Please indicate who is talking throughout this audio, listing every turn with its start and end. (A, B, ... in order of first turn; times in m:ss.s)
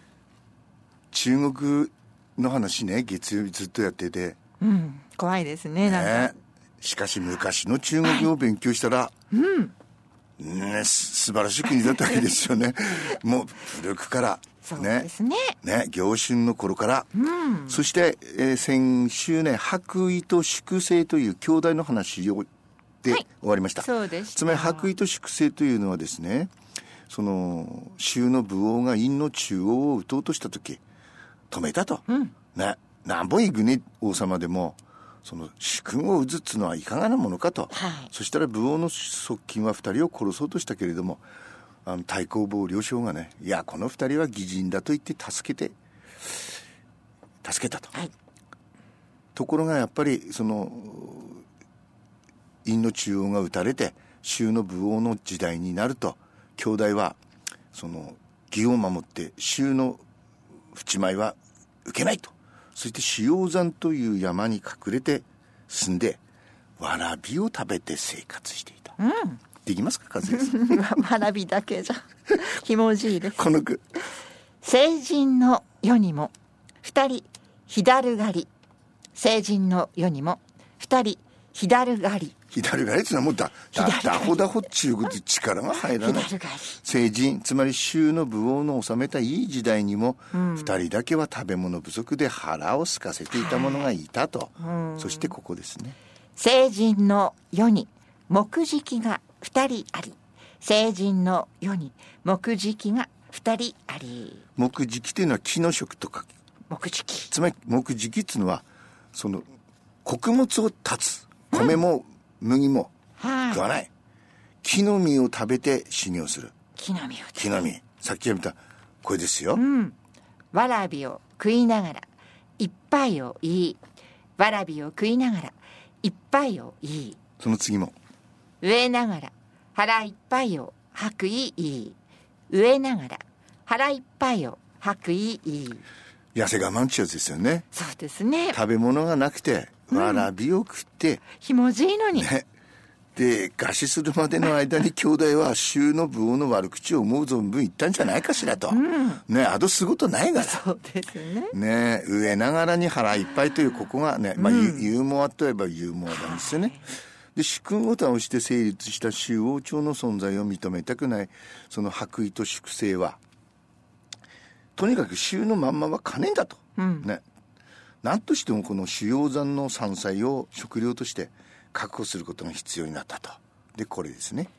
0:01.1-0:04.4 A
0:04.6-0:06.3 B
0:05.8-0:09.1 A
0:08.0-0:08.3 B
0:09.3-0:09.7 B
0:10.4-0:15.1 A
0:14.6-0:15.6 B
0:15.6-0:17.1 A
0:17.2-0:17.9 B
0:17.7-0:22.5 A
0:23.0-0:26.5 A
0:23.8-0:24.9 B
0:27.1-0:30.8 A
0:31.5-0:41.2 A
0:32.1-0:32.3 B
0:37.7-0:38.1 B
0:41.8-0:45.7 A
0:46.2-0:46.5 A
0:47.4-0:47.9 A
0:49.4-0:51.4 A
0:52.6-0:57.2 A
0:57.7-1:00.0 A
1:00.7-1:06.2 A
1:06.8-1:09.0 A
1:09.0-1:09.4 B
1:09.6-1:10.8 A
1:10.3-1:13.4 B
1:13.4-1:13.8 A
1:14.6-1:18.5 B
1:19.2-1:22.3 B
1:22.5-1:36.0 A
1:23.8-1:24.4 B
1:26.0-1:26.8 B
1:30.3-1:30.8 B
1:33.3-1:33.9 B
1:34.6-1:35.3 B
1:36.4-1:44.4 B
1:44.6-1:46.3 A
1:46.7-1:47.3 B
1:47.3-1:49.5 A
1:50.0-1:52.9 A
1:51.5-1:51.8 B
1:53.2-1:53.6 B
1:53.5-1:53.9 A
1:54.6-1:56.5 A
1:56.8-1:57.5 B
1:57.4-1:59.6 A
1:59.5-2:00.0 B
2:00.5-2:02.1 B
2:02.6-2:03.8 B
2:04.4-2:07.2 B
2:07.4-2:07.9 A
2:08.6-2:12.0 B
2:12.5-2:15.8 B
2:16.4-2:17.7 A
2:17.7-2:18.6 B
2:18.5-2:21.2 A
2:19.9-2:20.3 B
2:21.3-2:22.3 B
2:22.1-2:22.4 A
2:23.2-2:30.6 A
2:28.7-2:29.2 B
2:30.4-2:31.6 B
2:31.5-2:43.2 A
2:34.4-2:34.9 B
2:36.1-2:36.9 B
2:44.8-2:47.2 A
2:46.8-2:47.1 B
2:48.0-2:54.5 A